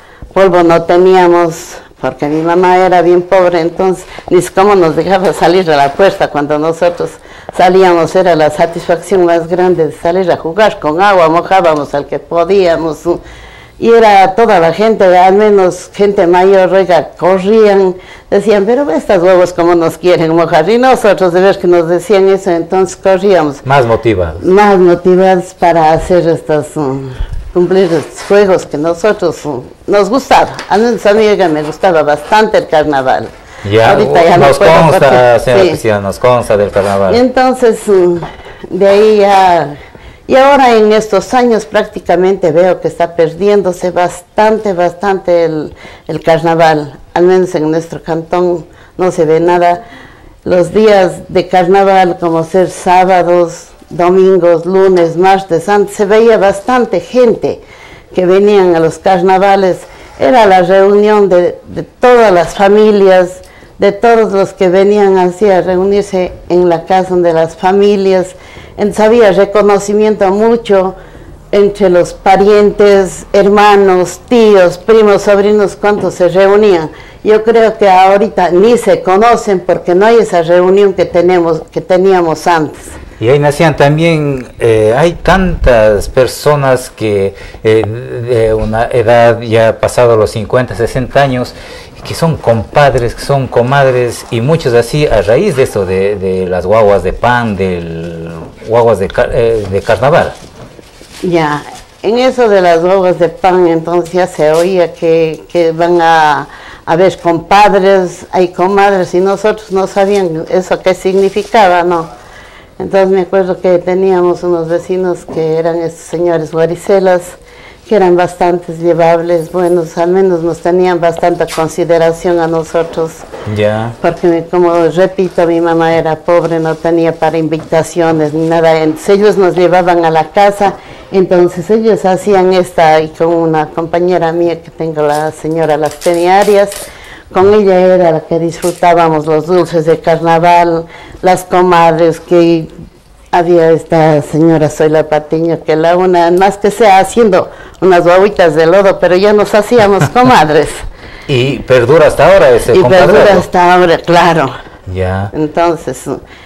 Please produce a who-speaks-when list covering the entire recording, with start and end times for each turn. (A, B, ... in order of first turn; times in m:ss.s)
0:00.3-0:13.2 A
0:13.8-0:23.6 A
0:23.6-0:24.4 B
0:24.4-0:35.8 A
0:33.6-0:37.2 B
0:37.1-0:39.8 A
0:40.3-0:49.8 A
0:50.4-0:57.6 A
0:58.1-1:11.0 A
1:11.5-1:23.0 A
1:23.2-1:40.4 B
1:41.2-1:52.1 A
1:52.8-2:03.2 A
2:03.4-2:04.0 B
2:04.0-2:16.8 A
2:17.3-2:22.7 A
2:23.3-2:30.8 A
2:31.3-2:33.4 B
2:32.7-2:34.5 A
2:34.9-2:35.3 B
2:35.3-2:36.2 A